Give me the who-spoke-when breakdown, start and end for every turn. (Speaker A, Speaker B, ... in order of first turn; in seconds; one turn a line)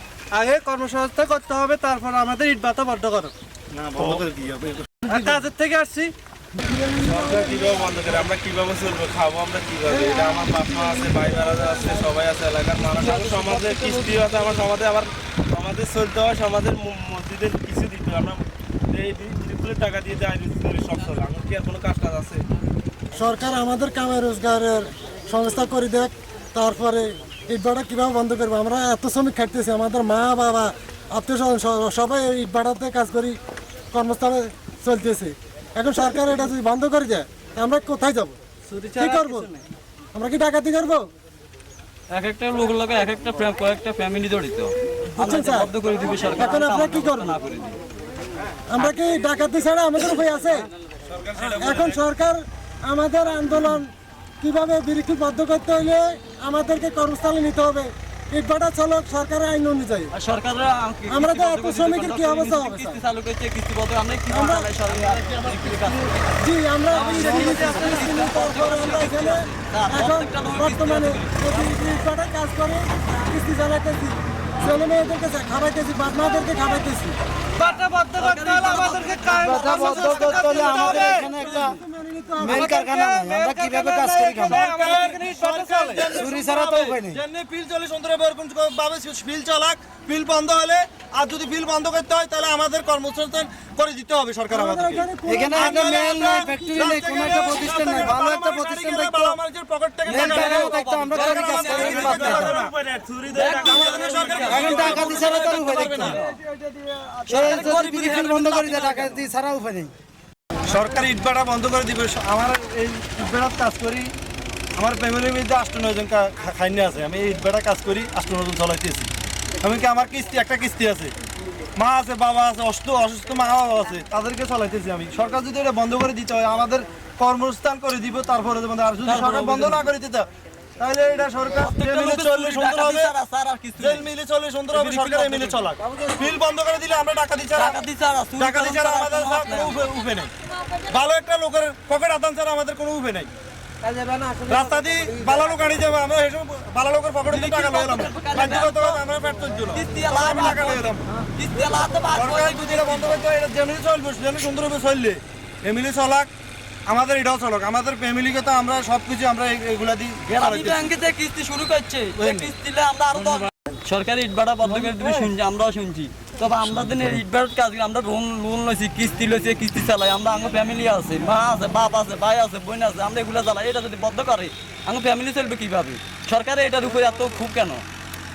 Speaker A: 0.3-3.3
Speaker B: 3.8-4.9
Speaker C: 4.0-4.2
Speaker A: 5.0-6.1
Speaker D: 6.6-7.7
Speaker C: 7.0-22.4
Speaker D: 23.1-33.4
Speaker D: 33.9-38.4
Speaker A: 38.7-39.3
Speaker D: 39.0-39.5
Speaker D: 40.1-41.1
Speaker E: 42.1-47.8
Speaker D: 45.1-47.4
Speaker D: 48.7-50.7
Speaker C: 51.1-52.0
Speaker D: 51.4-60.1
Speaker E: 60.1-66.2
Speaker D: 61.1-63.0
Speaker D: 64.3-64.7
Speaker D: 66.4-77.2
Speaker E: 66.9-71.8
Speaker A: 67.0-68.0
Speaker A: 77.6-81.3
Speaker E: 78.2-79.3
Speaker B: 78.9-81.2
Speaker F: 79.3-81.8
Speaker D: 81.0-82.7
Speaker F: 82.4-84.7
Speaker A: 82.4-86.2
Speaker B: 84.4-102.7
Speaker F: 86.0-87.2
Speaker D: 94.5-97.6
Speaker F: 95.2-99.4
Speaker F: 100.0-102.7
Speaker E: 100.1-102.6
Speaker C: 101.8-105.1
Speaker E: 103.3-106.4
Speaker B: 103.6-107.9
Speaker F: 104.5-106.2
Speaker E: 107.3-109.3
Speaker F: 107.3-109.9
Speaker B: 110.7-114.1
Speaker B: 114.8-119.1
Speaker B: 119.6-121.1
Speaker B: 121.8-133.1
Speaker E: 129.0-129.8
Speaker E: 131.6-134.1
Speaker B: 133.8-137.8
Speaker E: 134.7-135.7
Speaker F: 135.8-136.3
Speaker E: 137.6-139.8
Speaker B: 138.4-140.3
Speaker B: 140.9-143.3
Speaker F: 143.8-145.6
Speaker B: 144.5-151.0
Speaker E: 147.3-149.0
Speaker E: 149.7-153.2
Speaker B: 152.1-156.3
Speaker B: 156.9-161.0
Speaker E: 160.3-177.8
Speaker B: 162.2-162.5
Speaker B: 164.8-165.2